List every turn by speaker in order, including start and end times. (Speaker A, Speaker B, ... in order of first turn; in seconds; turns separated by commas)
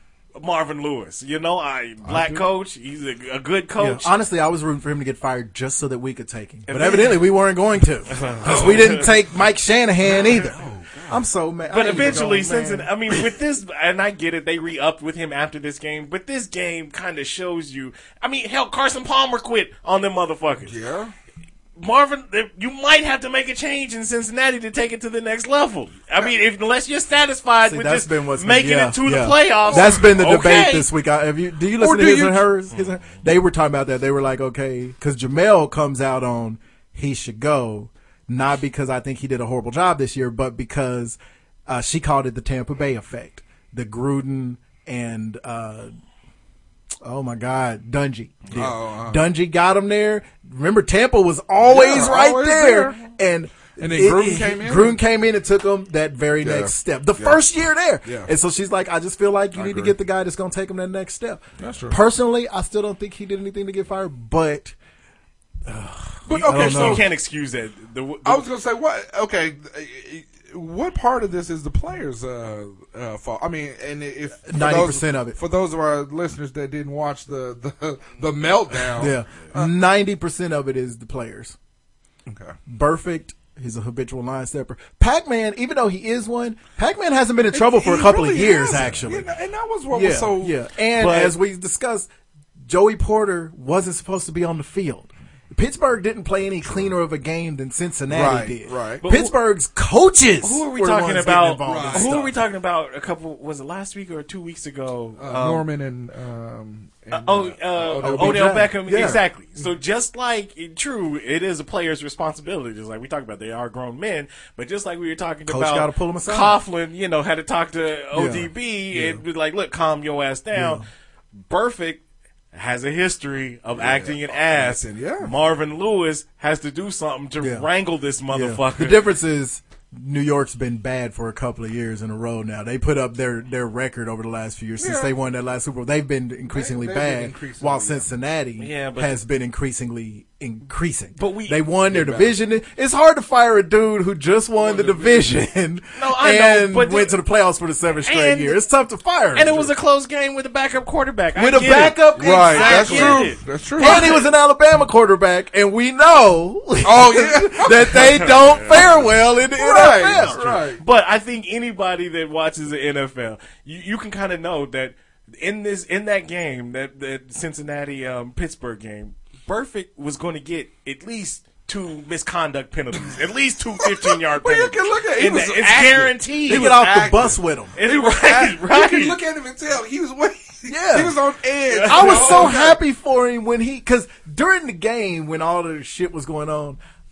Speaker A: 0.3-4.1, Speaker B: 2.0-2.4, Speaker C: 3.8-12.9, Speaker A: 6.7-7.2, Speaker A: 8.1-9.1, Speaker B: 8.4-8.9, Speaker B: 10.5-10.9, Speaker A: 11.7-20.7, Speaker B: 20.7-21.1, Speaker A: 21.8-30.9, Speaker C: 27.6-45.9, Speaker B: 29.7-30.1, Speaker B: 31.8-32.5, Speaker C: 47.0-64.7, Speaker B: 48.5-49.3, Speaker B: 51.6-53.0, Speaker B: 53.8-55.0, Speaker B: 56.4-57.4, Speaker B: 58.0-58.3, Speaker B: 59.5-59.9, Speaker B: 61.6-62.0, Speaker C: 65.7-67.0, Speaker B: 66.2-67.1, Speaker A: 66.3-68.5, Speaker B: 68.2-79.7, Speaker C: 74.5-75.4, Speaker C: 78.9-81.5, Speaker B: 82.3-82.5, Speaker C: 82.7-89.3, Speaker B: 87.5-90.6, Speaker C: 89.9-92.1, Speaker A: 91.0-91.3, Speaker C: 92.7-102.3, Speaker B: 98.1-99.0, Speaker A: 99.0-99.3, Speaker A: 100.4-105.6, Speaker B: 101.6-102.2, Speaker B: 105.2-108.5, Speaker A: 107.1-120.8, Speaker C: 108.0-109.2, Speaker C: 115.5-116.6, Speaker C: 118.1-118.5, Speaker B: 118.9-119.2, Speaker C: 120.5-120.8, Speaker A: 121.5-122.0, Speaker A: 122.5-129.0, Speaker B: 123.7-125.3, Speaker C: 127.4-127.7, Speaker C: 128.3-149.7, Speaker B: 134.8-135.1, Speaker B: 136.5-138.1, Speaker A: 138.6-139.2, Speaker A: 141.2-142.3, Speaker B: 144.6-145.4, Speaker A: 145.9-147.2, Speaker A: 148.0-148.6, Speaker A: 149.3-154.2, Speaker C: 151.3-160.4, Speaker B: 152.1-154.1, Speaker B: 156.8-160.8, Speaker A: 158.2-159.1, Speaker A: 160.2-176.9, Speaker B: 174.0-182.8, Speaker C: 176.5-177.7, Speaker A: 177.8-179.2, Speaker C: 180.7-181.2, Speaker A: 181.7-182.5, Speaker C: 181.8-186.8